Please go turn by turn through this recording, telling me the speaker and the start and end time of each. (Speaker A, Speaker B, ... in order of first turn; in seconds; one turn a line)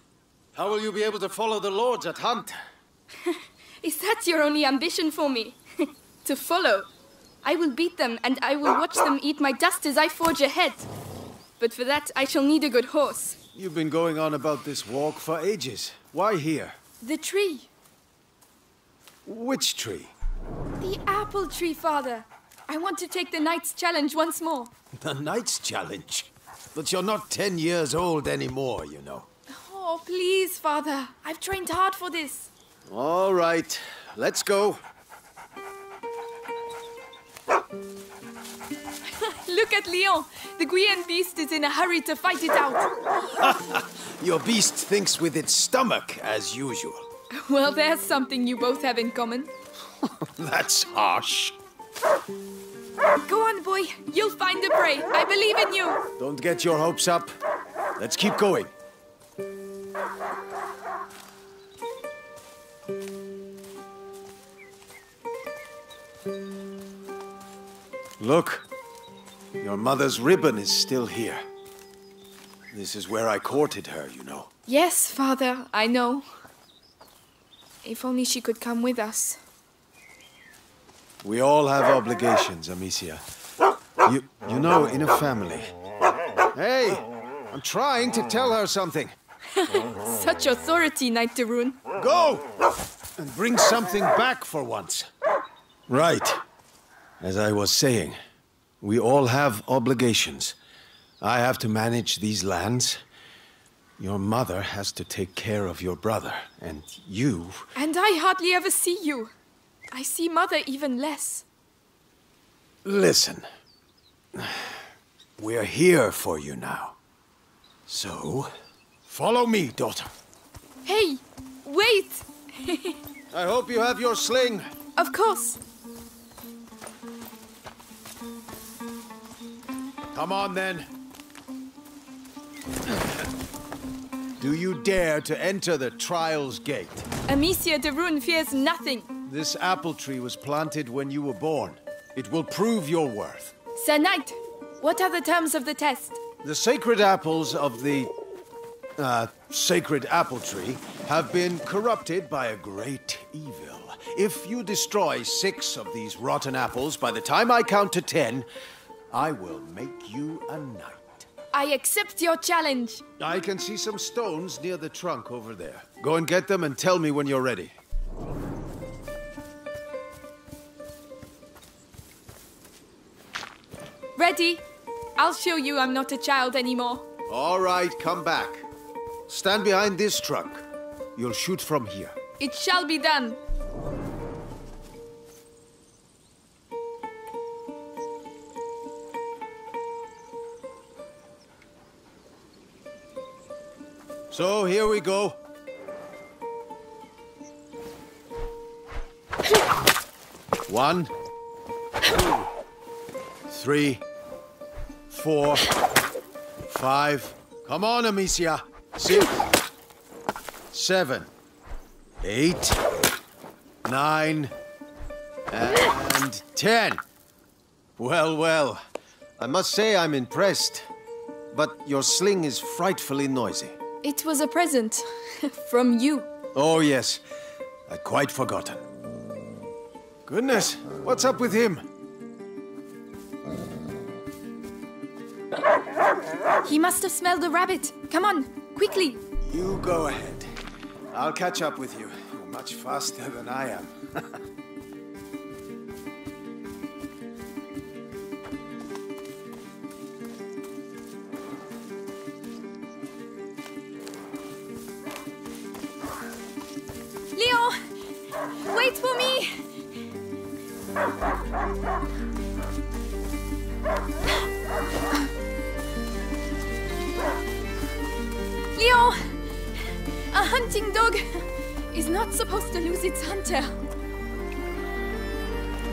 Speaker A: 0.5-2.6
Speaker B: 3.2-5.6
Speaker B: 6.2-6.9
Speaker B: 7.4-10.9
Speaker B: 11.6-13.3
Speaker A: 13.5-16.8
Speaker B: 17.0-17.7
Speaker A: 19.2-20.1
Speaker B: 20.8-24.7
Speaker A: 25.0-29.3
Speaker B: 29.5-32.5
Speaker A: 32.8-34.8
Speaker B: 39.0-42.9
Speaker A: 43.3-47.0
Speaker B: 47.3-49.5
Speaker A: 50.0-51.5
Speaker B: 53.2-56.0
Speaker A: 56.2-57.3
Speaker A: 58.0-58.7
Speaker A: 68.2-68.7
Speaker A: 69.6-71.4
Speaker A: 72.7-74.5
Speaker B: 74.7-76.3
Speaker B: 77.8-79.4
Speaker A: 81.2-83.2
Speaker A: 84.0-85.7
Speaker A: 86.5-89.1
Speaker B: 89.5-91.8
Speaker A: 92.0-92.5
Speaker A: 93.2-95.1
Speaker A: 95.9-96.4
Speaker A: 97.2-98.2
Speaker A: 98.8-100.6
Speaker A: 101.2-103.0
Speaker A: 104.0-107.7
Speaker B: 107.7-109.3
Speaker B: 109.9-111.4
Speaker A: 112.8-113.5
Speaker A: 114.3-114.8
Speaker A: 115.4-117.0
Speaker A: 117.9-118.5
Speaker A: 119.1-120.1
Speaker B: 120.8-123.0
Speaker A: 123.3-124.7
Speaker B: 125.0-125.6
Speaker A: 130.1-130.9
Speaker A: 134.4-137.1
Speaker B: 137.3-139.1
Speaker A: 139.2-143.5
Speaker B: 143.8-146.2
Speaker A: 146.4-148.1
Speaker A: 149.0-158.5
Speaker A: 159.1-161.3
Speaker B: 161.5-163.0
Speaker A: 163.2-167.8
Speaker B: 174.2-174.6
Speaker B: 175.2-177.0
Speaker A: 177.3-178.7
Speaker A: 179.3-182.2
Speaker B: 182.4-183.4
Speaker A: 194.3-195.4
Speaker A: 200.7-201.1
Speaker A: 202.1-202.5
Speaker A: 203.5-204.0
Speaker A: 205.1-205.7
Speaker A: 206.7-209.4
Speaker A: 210.7-211.3
Speaker A: 212.2-212.8
Speaker A: 213.8-214.5
Speaker A: 215.5-217.0
Speaker A: 218.0-218.8
Speaker A: 219.4-220.9
Speaker A: 221.5-223.8
Speaker B: 224.0-226.3
Speaker A: 226.5-227.2
Speaker A: 227.9-228.8
Speaker A: 230.3-231.8
Speaker B: 236.6-239.2
Speaker A: 239.4-240.5
Speaker A: 241.1-244.4
Speaker B: 257.3-257.8
Speaker B: 258.6-259.7
Speaker B: 268.7-273.8